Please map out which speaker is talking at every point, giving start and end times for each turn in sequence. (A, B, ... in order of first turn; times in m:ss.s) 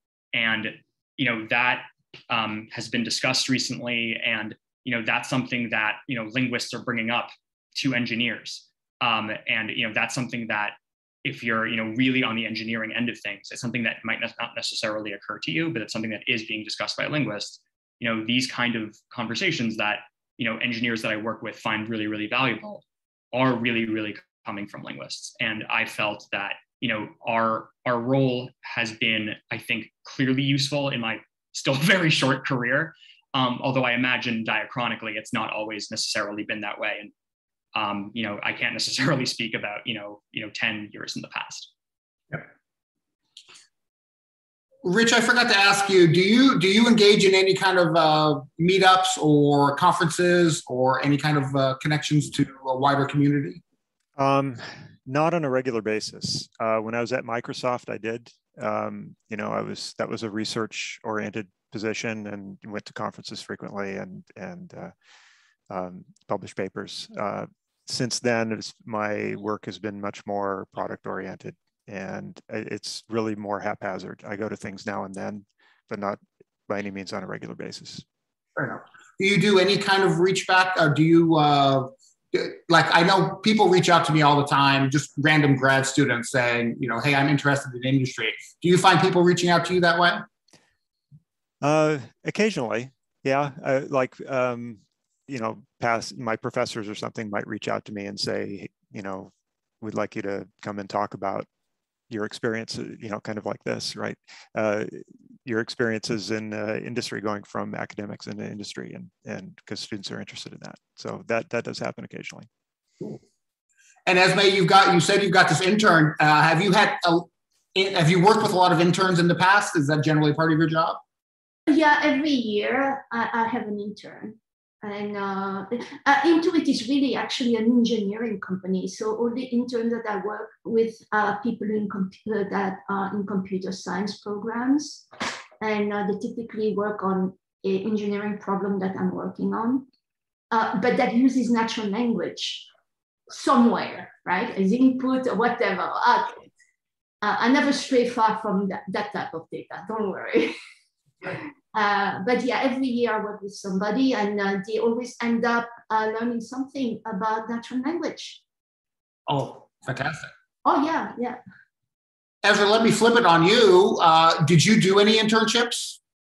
0:00.3-0:37.1 A
0:37.7-0:41.7 A
0:44.8-0:53.6 B
0:54.2-1:04.9 C
1:05.7-1:18.0 C
1:18.6-1:30.2 B
1:31.6-1:41.5 C
1:42.1-1:52.5 C
1:54.0-2:01.0 B
2:01.7-2:15.0 D
2:15.6-2:19.8 D
2:20.5-2:22.7 D
2:23.3-2:26.4 D
2:27.2-2:30.5 D
2:31.3-2:38.4 D
2:39.3-2:40.3 B
2:40.6-2:41.4 D
2:42.4-2:46.0 B